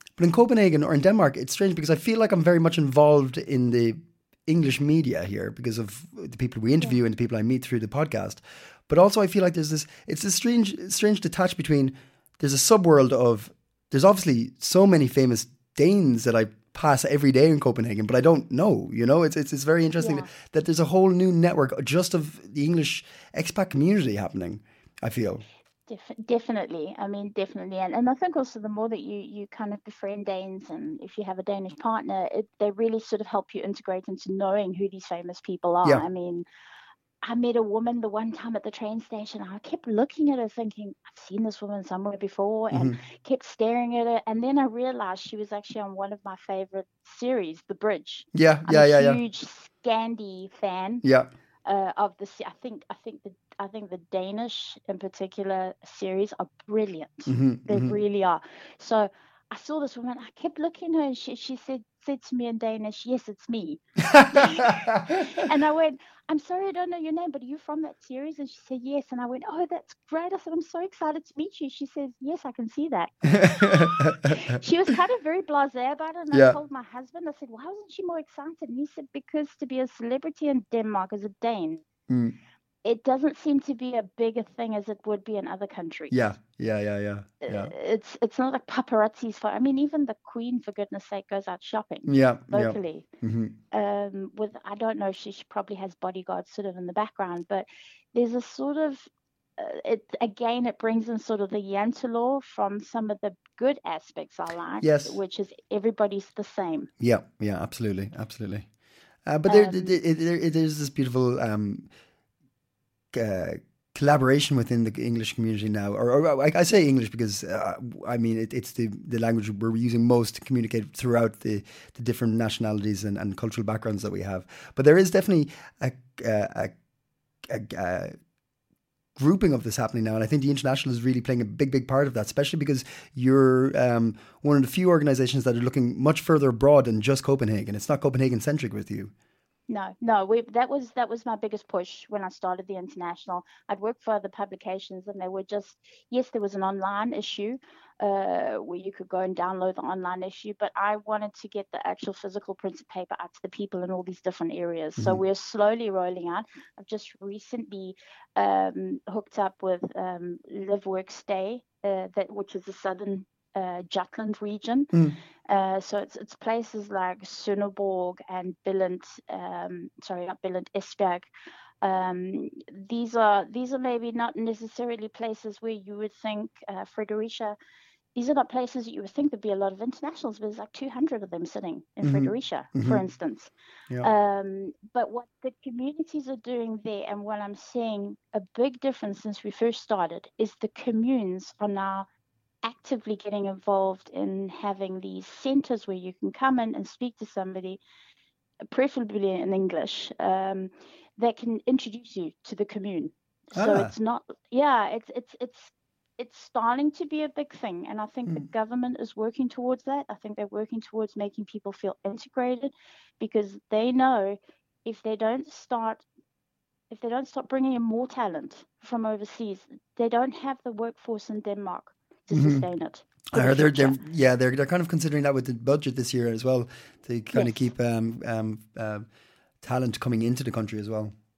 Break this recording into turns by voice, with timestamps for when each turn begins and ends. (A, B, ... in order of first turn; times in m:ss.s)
0:00.2-0:25.4 A
0:20.0-0:20.3 B
0:25.9-0:36.5 B
0:37.2-0:51.0 B
0:42.7-0:43.0 A
0:48.3-0:49.2 A
0:51.0-0:51.3 A
0:51.7-1:21.8 B
0:57.3-0:58.0 A
1:04.1-1:05.0 A
1:13.3-1:14.6 A
1:16.3-1:16.6 A
1:22.1-1:22.4 A
1:22.8-1:26.2 B
1:26.1-1:27.7 A
1:27.4-1:33.1 B
1:32.1-1:33.5 A
1:33.7-1:46.9 B
1:44.8-1:45.2 A
1:47.0-1:48.7 A
1:49.3-1:51.9 A
1:49.5-1:50.0 B
1:53.1-2:06.8 A
2:07.4-2:08.2 A
2:09.2-2:19.1 A
2:19.7-2:44.9 B
2:45.5-2:51.3 B
2:51.8-2:57.6 B
2:58.2-3:12.1 B
3:02.0-3:03.0 A
3:12.6-3:17.8 B
3:18.7-3:36.0 B
3:23.5-3:23.9 A
3:36.9-3:44.0 B
3:42.3-3:42.7 A
3:43.3-3:49.1 A
3:47.3-3:47.6 B
3:49.6-3:51.1 A